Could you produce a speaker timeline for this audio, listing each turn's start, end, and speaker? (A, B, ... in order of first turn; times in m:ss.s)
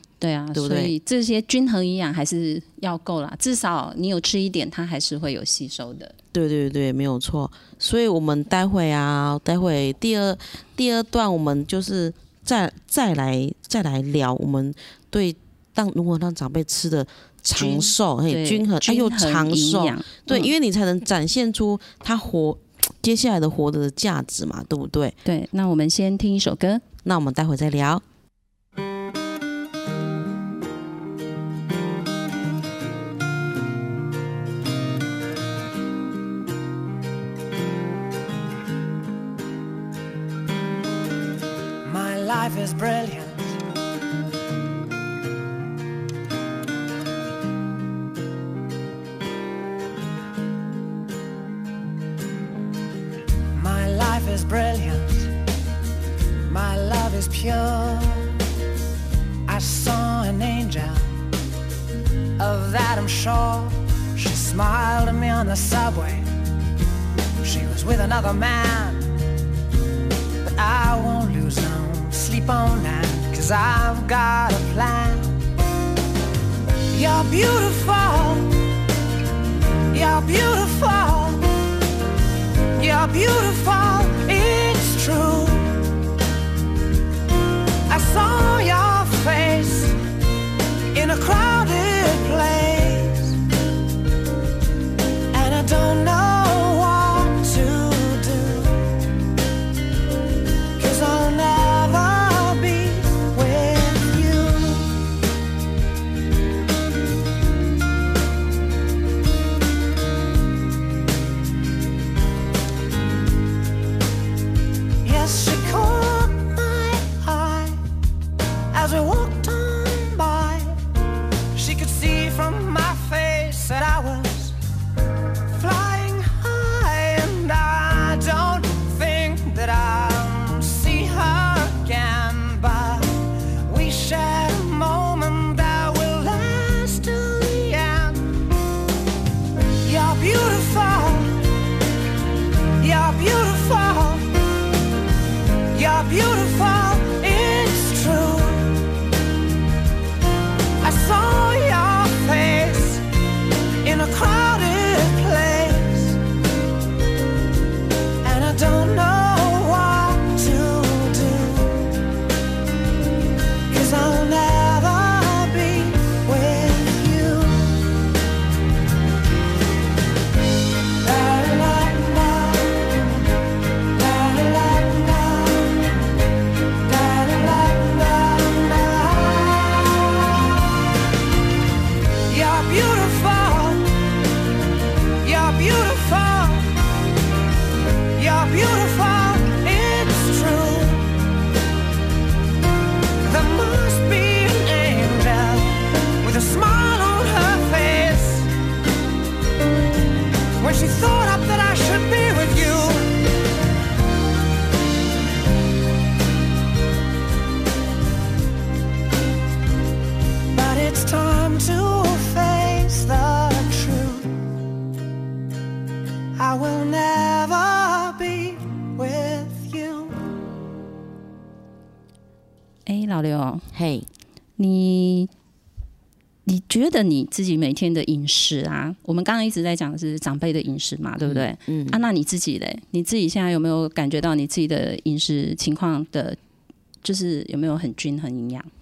0:00.2-0:06.1 A
0:00.5-0:00.9 B
0:06.3-0:25.2 B
0:17.5-0:20.5 A
0:25.2-0:26.8 A
0:27.0-0:28.0 B
0:41.8-0:43.6 C
0:53.5-0:55.3 C
0:56.5-0:58.4 C
0:59.5-1:01.2 C
1:02.4-1:06.3 C
1:07.4-1:09.2 C
1:10.4-1:15.4 C
1:16.9-1:18.6 C
1:19.9-1:21.5 C
1:22.8-1:25.8 C
1:27.9-1:30.0 C
1:30.9-1:33.4 C
1:35.3-1:39.0 C
1:40.8-1:44.9 C
1:55.0-1:57.8 C
1:58.7-2:00.8 C
2:01.5-2:04.5 C
2:05.5-2:18.2 C
2:19.8-2:21.5 C
2:22.8-2:24.3 C
2:25.7-2:28.8 C
2:30.8-2:33.0 C
2:33.8-2:36.2 C
2:38.2-2:42.0 C
2:43.7-2:47.8 C
2:51.0-2:53.2 C
2:54.0-2:55.9 C
2:56.8-3:00.4 C
3:02.3-3:04.0 C
3:05.2-3:06.7 C
3:08.1-3:11.1 C
3:13.2-3:18.5 C
3:20.6-3:23.2 C
3:30.5-3:34.4 C
3:36.4-3:40.2 C
3:42.8-3:43.7 A
3:43.7-3:44.1 B
3:44.6-3:45.3 A
3:46.4-3:56.4 A
3:51.2-3:52.0 B
3:57.0-3:58.7 A